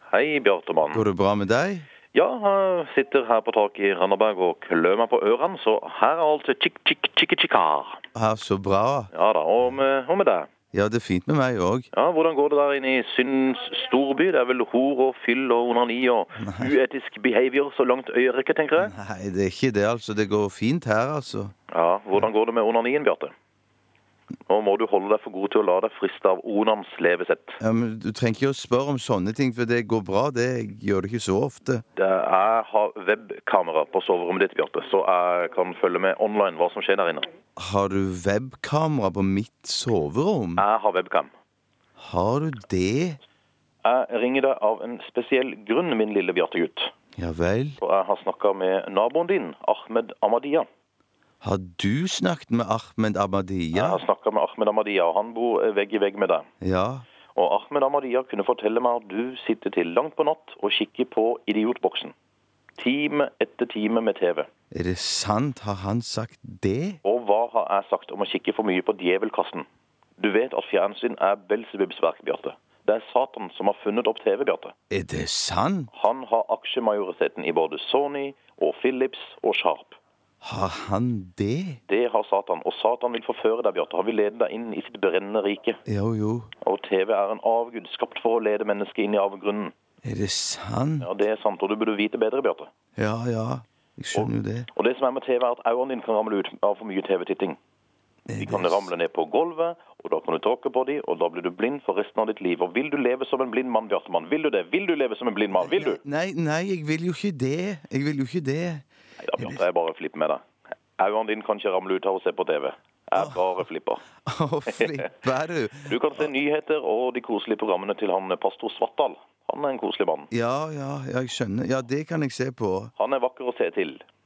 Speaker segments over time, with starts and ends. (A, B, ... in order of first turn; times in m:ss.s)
0:00.1-0:01.0 A
0:00.9-0:01.9 B
0:02.1-0:08.0 A
0:08.1-0:09.1 B
0:09.1-0:10.5 A
0:10.7-0:11.9 B
0:11.9-0:18.9 A
0:16.4-0:16.7 B
0:18.8-0:21.5 B
0:21.7-0:23.3 A
0:24.5-0:27.6 A
0:27.6-0:31.8 B
0:32.0-0:37.3 A
0:37.6-0:40.6 B
0:40.6-0:41.3 A
0:42.0-0:43.2 B
0:43.8-0:46.9 A
0:47.2-0:47.8 B
0:47.8-0:50.7 A
0:51.4-0:54.0 B
0:53.7-0:56.5 A
0:56.6-0:57.0 B
0:57.3-1:02.1 A
1:02.8-1:04.5 A
1:04.7-1:07.0 B
1:07.0-1:09.7 A
1:10.2-1:14.7 A
1:14.9-1:15.9 B
1:15.9-1:20.0 A
1:20.4-1:21.8 B
1:21.9-1:25.8 A
1:25.9-1:26.5 B
1:26.6-1:29.7 A
1:30.0-1:31.1 B
1:31.0-1:32.7 A
1:33.0-1:34.7 B
1:34.1-1:37.6 A
1:38.3-1:38.9 B
1:38.4-1:46.0 A
1:45.6-1:48.8 B
1:49.2-1:50.4 A
1:51.0-1:54.0 A
1:53.2-1:53.4 B
1:54.2-1:56.3 B
1:54.7-1:55.1 A
1:55.9-2:00.3 A
2:00.3-2:02.9 B
2:03.0-2:04.0 A